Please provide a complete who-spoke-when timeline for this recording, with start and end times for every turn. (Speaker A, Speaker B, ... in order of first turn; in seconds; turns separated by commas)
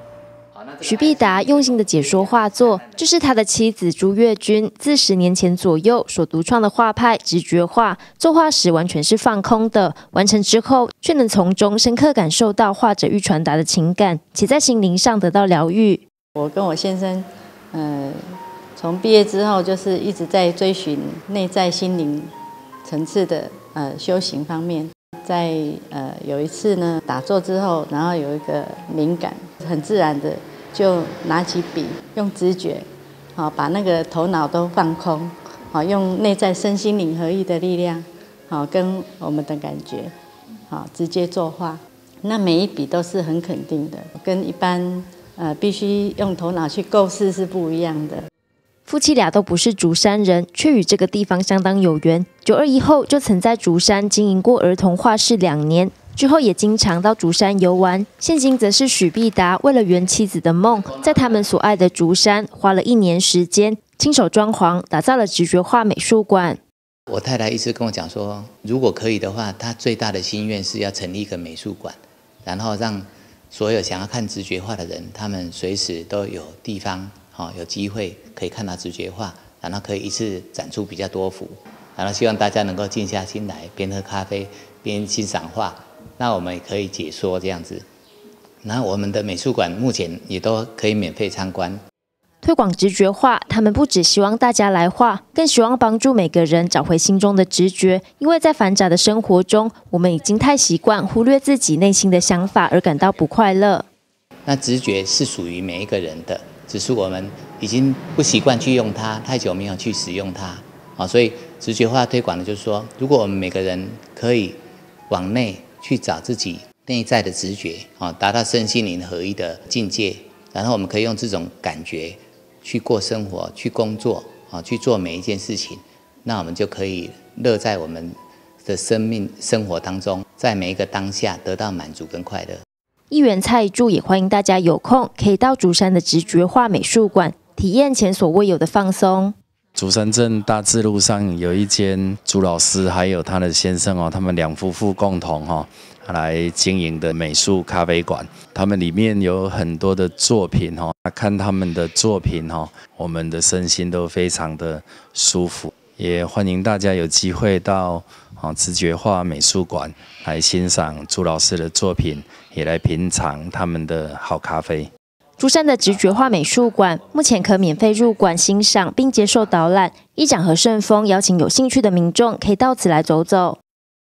Speaker A: 0.5-3.1, Speaker B: 0.8-16.0, Speaker C: 16.4-18.2, Speaker C: 18.8-22.3, Speaker C: 22.8-40.1, Speaker C: 40.7-48.2, Speaker B: 48.9-66.6, Speaker A: 60.7-61.7, Speaker A: 67.1-87.8, Speaker A: 88.6-91.8, Speaker B: 92.4-103.8, Speaker A: 104.5-132.6, Speaker B: 133.1-139.3, Speaker D: 139.7-164.9, Speaker B: 165.4-173.6